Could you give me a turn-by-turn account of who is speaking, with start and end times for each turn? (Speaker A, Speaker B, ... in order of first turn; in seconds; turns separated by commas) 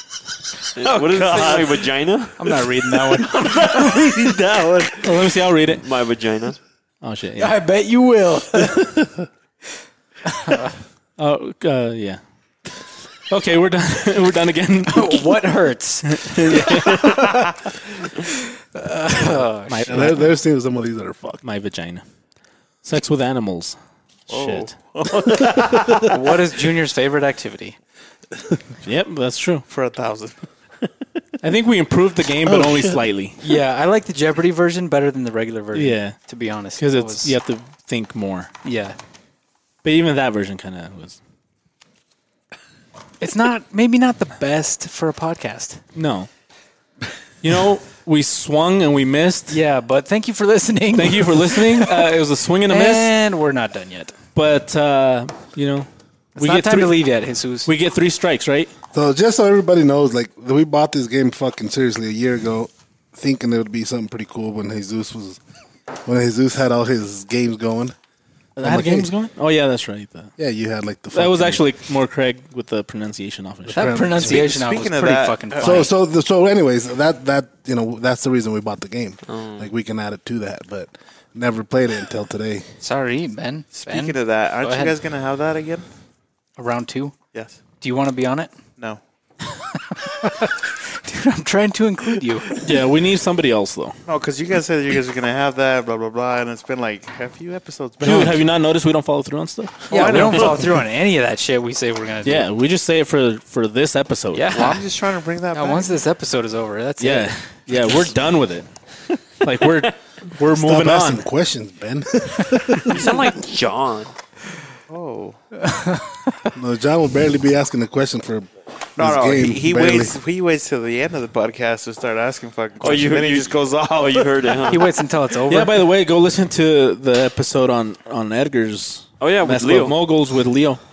Speaker A: 0.8-2.4, Speaker B: 0.8-1.9, Speaker C: 2.4-4.1, Speaker B: 3.1-5.3, Speaker D: 5.0-5.8, Speaker A: 5.8-6.6, Speaker D: 7.0-7.6, Speaker C: 7.4-8.9, Speaker C: 10.3-10.7, Speaker D: 11.2-12.2, Speaker D: 13.3-15.4, Speaker C: 14.9-17.5, Speaker D: 16.0-17.2, Speaker C: 18.2-20.2, Speaker D: 19.7-20.3, Speaker E: 19.9-21.4, Speaker D: 21.4-22.0, Speaker D: 22.8-24.7, Speaker B: 24.3-26.2, Speaker C: 26.0-27.8, Speaker D: 28.8-29.7, Speaker B: 29.7-30.5, Speaker D: 31.4-33.4, Speaker E: 32.5-33.0, Speaker C: 33.4-37.4, Speaker D: 35.7-36.2, Speaker D: 36.8-38.5, Speaker C: 38.6-39.0, Speaker D: 39.8-41.2, Speaker C: 43.2-45.8, Speaker D: 46.0-46.3, Speaker D: 47.4-49.6, Speaker C: 49.5-54.2, Speaker D: 50.9-53.1, Speaker D: 54.4-57.0, Speaker C: 56.4-57.7, Speaker D: 57.6-58.7, Speaker E: 58.9-65.4, Speaker E: 66.0-68.0, Speaker D: 68.6-70.3, Speaker E: 68.6-69.1, Speaker E: 70.4-71.7, Speaker D: 71.1-74.1, Speaker E: 73.7-74.5, Speaker C: 73.7-75.9, Speaker B: 74.2-75.9, Speaker E: 75.6-82.7, Speaker A: 79.3-79.7, Speaker C: 82.8-85.0, Speaker B: 83.8-85.9, Speaker C: 86.6-87.1, Speaker C: 87.8-88.5, Speaker C: 89.8-92.6, Speaker D: 92.6-94.0, Speaker B: 94.1-98.5, Speaker D: 98.0-100.6, Speaker C: 99.9-102.5, Speaker B: 99.9-100.4, Speaker D: 102.2-104.6, Speaker C: 104.3-104.9, Speaker B: 104.5-106.0, Speaker C: 105.5-108.2, Speaker D: 107.0-108.7, Speaker D: 109.4-111.2, Speaker E: 110.5-113.0, Speaker A: 112.9-114.1, Speaker B: 114.9-115.4, Speaker C: 115.6-116.4, Speaker E: 116.5-120.2, Speaker B: 119.0-124.8, Speaker A: 122.8-124.9, Speaker C: 124.7-125.9, Speaker D: 125.5-130.8, Speaker A: 129.2-130.0